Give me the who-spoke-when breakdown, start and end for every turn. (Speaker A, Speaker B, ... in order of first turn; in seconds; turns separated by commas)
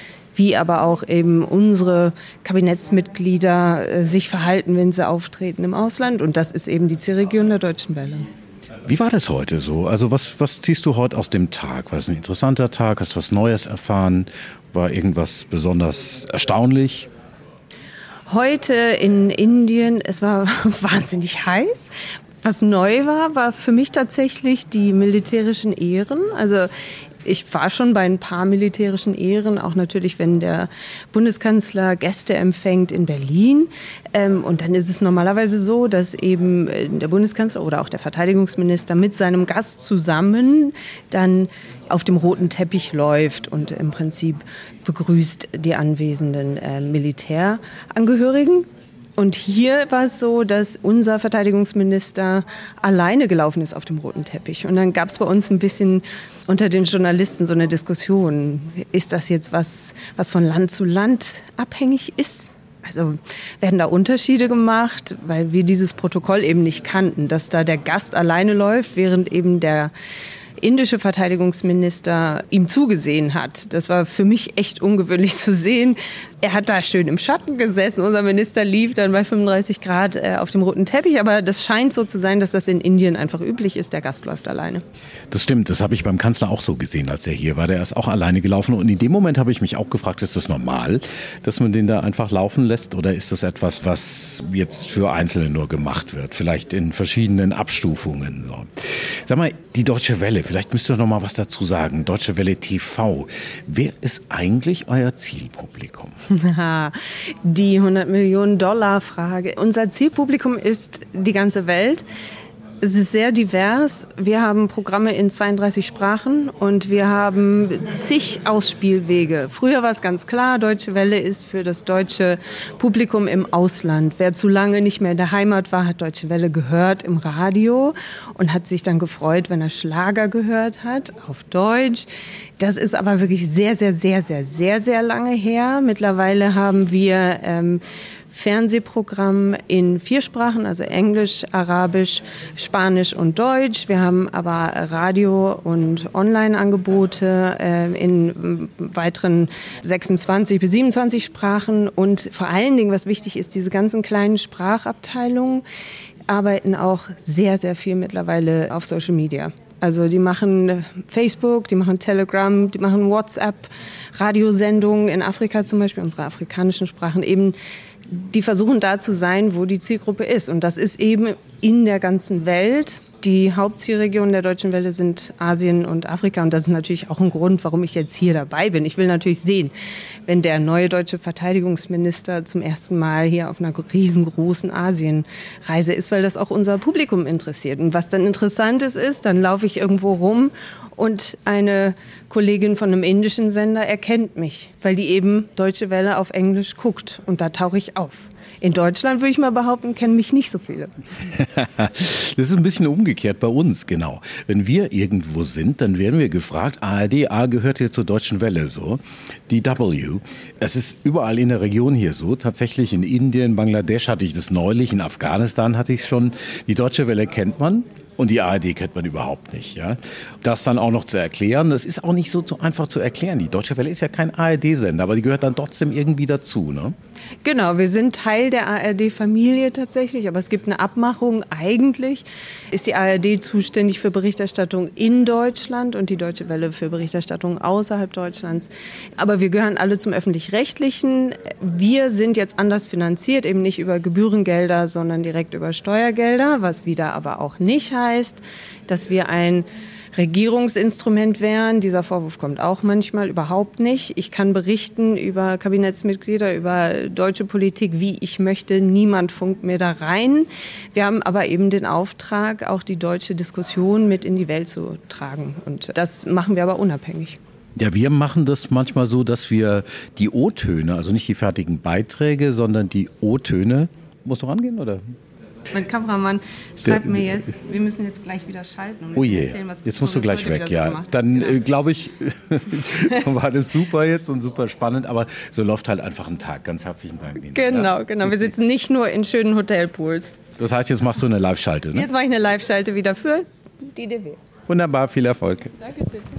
Speaker A: 0.3-8.3, Speaker B: 8.8-17.1, Speaker A: 18.3-21.9, Speaker A: 22.4-26.7, Speaker A: 27.2-69.9, Speaker A: 70.6-84.8, Speaker B: 85.3-106.1, Speaker A: 106.3-106.9, Speaker A: 107.5-112.0, Speaker A: 112.8-132.1, Speaker A: 132.6-155.6, Speaker A: 156.3-167.6, Speaker A: 168.1-179.7, Speaker A: 180.2-201.0, Speaker B: 201.3-226.9, Speaker A: 227.4-267.4, Speaker B: 267.8-275.1, Speaker A: 275.7-281.7, Speaker B: 276.9-277.4, Speaker B: 279.1-288.5, Speaker A: 282.9-283.2, Speaker A: 287.5-290.4, Speaker B: 290.6-292.1, Speaker A: 291.9-294.4, Speaker B: 294.7-295.7, Speaker A: 295.9-296.2